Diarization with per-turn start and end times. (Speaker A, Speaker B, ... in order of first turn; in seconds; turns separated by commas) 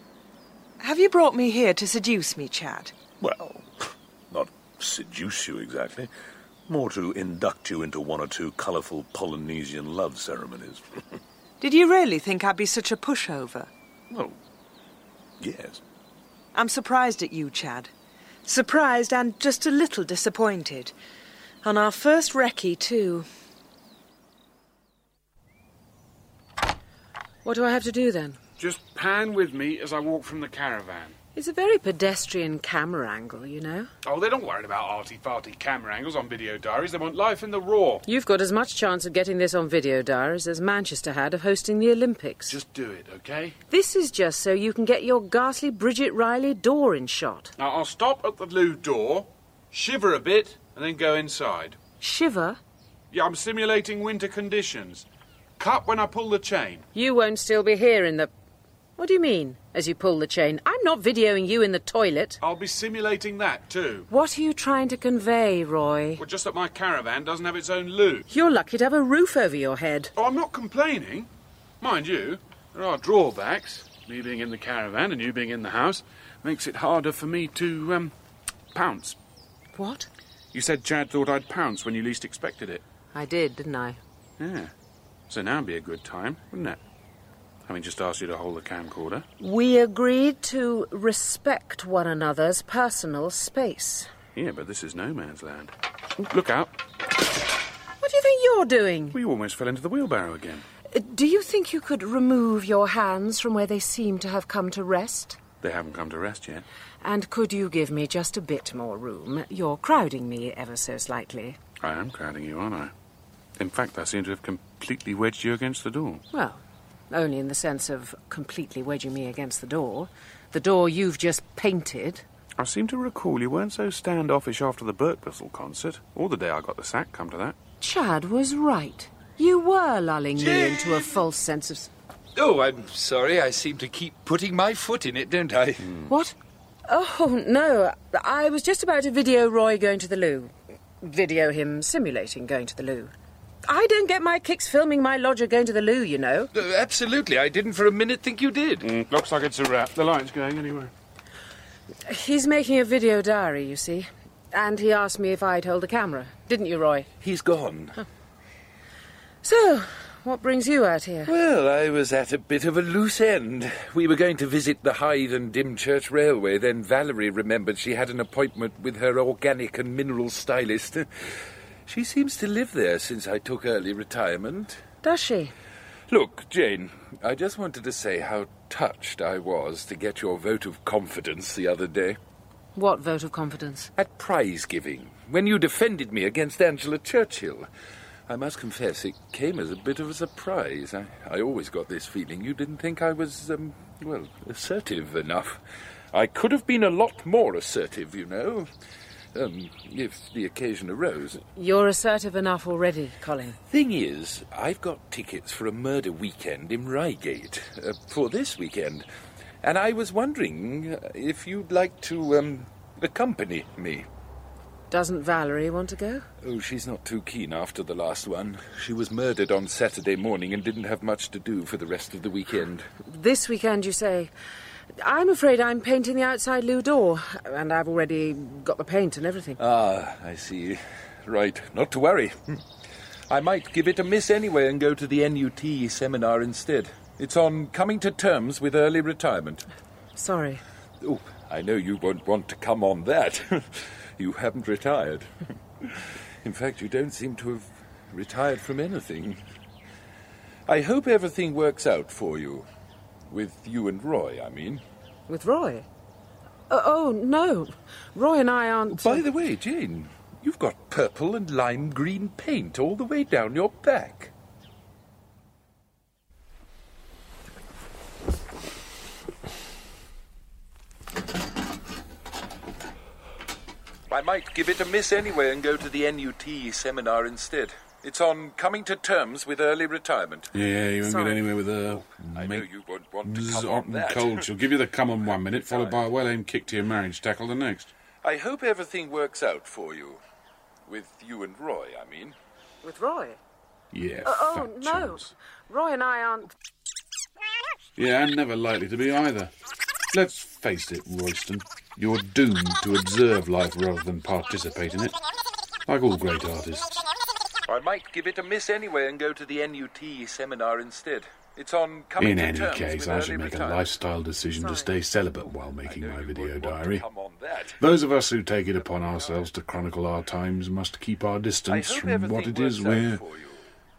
Speaker A: 0.8-3.0, Speaker B: 3.2-6.1, Speaker B: 6.7-10.8, Speaker A: 11.6-13.7, Speaker B: 14.1-14.4, Speaker B: 15.4-15.8, Speaker A: 16.5-17.9, Speaker A: 18.4-20.9, Speaker A: 21.6-23.3, Speaker C: 27.4-28.4, Speaker D: 28.6-31.2, Speaker C: 31.3-33.9, Speaker D: 34.0-38.0, Speaker C: 38.1-42.6, Speaker D: 42.5-43.5, Speaker C: 43.7-47.5, Speaker D: 47.6-51.8, Speaker C: 52.0-52.6, Speaker D: 53.1-55.0, Speaker D: 55.6-56.9, Speaker C: 56.9-58.3, Speaker C: 59.0-62.4, Speaker D: 62.4-64.1, Speaker C: 64.1-66.2, Speaker D: 66.2-68.2, Speaker C: 68.3-70.1, Speaker D: 70.2-71.3, Speaker D: 71.8-78.1, Speaker D: 78.7-79.2, Speaker C: 79.8-80.1, Speaker D: 80.5-82.8, Speaker C: 83.1-84.0, Speaker D: 84.4-84.7, Speaker D: 85.3-86.8, Speaker D: 87.7-89.2, Speaker C: 89.4-94.1, Speaker D: 94.3-96.7, Speaker C: 98.0-99.2, Speaker D: 99.1-100.7, Speaker C: 100.9-105.4, Speaker D: 105.6-106.7, Speaker C: 107.0-111.6, Speaker D: 111.8-112.9, Speaker D: 113.6-116.2, Speaker C: 116.3-122.2, Speaker D: 122.6-127.6, Speaker C: 127.8-131.9, Speaker E: 130.4-131.0, Speaker E: 132.3-135.9, Speaker C: 136.1-136.3, Speaker C: 136.9-143.1, Speaker C: 143.7-146.5, Speaker E: 146.5-148.9, Speaker D: 148.8-150.9, Speaker C: 152.1-157.1, Speaker E: 157.2-158.0, Speaker C: 159.4-161.3, Speaker E: 161.2-171.3, Speaker E: 171.9-174.8, Speaker C: 175.0-175.5, Speaker E: 176.1-182.2, Speaker C: 182.8-183.9, Speaker E: 184.0-187.7, Speaker E: 188.3-195.6, Speaker E: 196.1-198.7, Speaker E: 199.3-201.4, Speaker C: 201.6-203.6, Speaker E: 203.7-209.1, Speaker E: 209.6-214.1, Speaker C: 214.9-216.3, Speaker E: 216.4-222.9, Speaker C: 223.1-224.3, Speaker C: 225.0-229.6, Speaker E: 229.6-232.6, Speaker E: 233.3-239.7, Speaker C: 240.2-240.6, Speaker E: 241.0-245.3, Speaker E: 245.8-249.4, Speaker E: 250.7-252.7, Speaker E: 253.3-254.8, Speaker C: 255.3-255.9, Speaker C: 256.7-259.2, Speaker E: 258.9-264.3, Speaker E: 274.1-280.5, Speaker D: 280.5-282.6, Speaker C: 281.0-281.4, Speaker E: 281.9-284.5, Speaker D: 283.2-287.9, Speaker E: 285.3-286.0, Speaker E: 288.2-290.2, Speaker E: 290.9-292.4, Speaker C: 292.8-293.4, Speaker D: 293.9-295.3, Speaker C: 294.2-296.5, Speaker D: 298.0-299.5, Speaker D: 300.1-305.1, Speaker D: 305.9-307.1, Speaker E: 307.7-313.9, Speaker D: 312.2-317.0, Speaker C: 314.6-314.9, Speaker E: 315.8-317.8, Speaker D: 317.8-323.2, Speaker E: 318.8-319.5, Speaker E: 321.7-323.7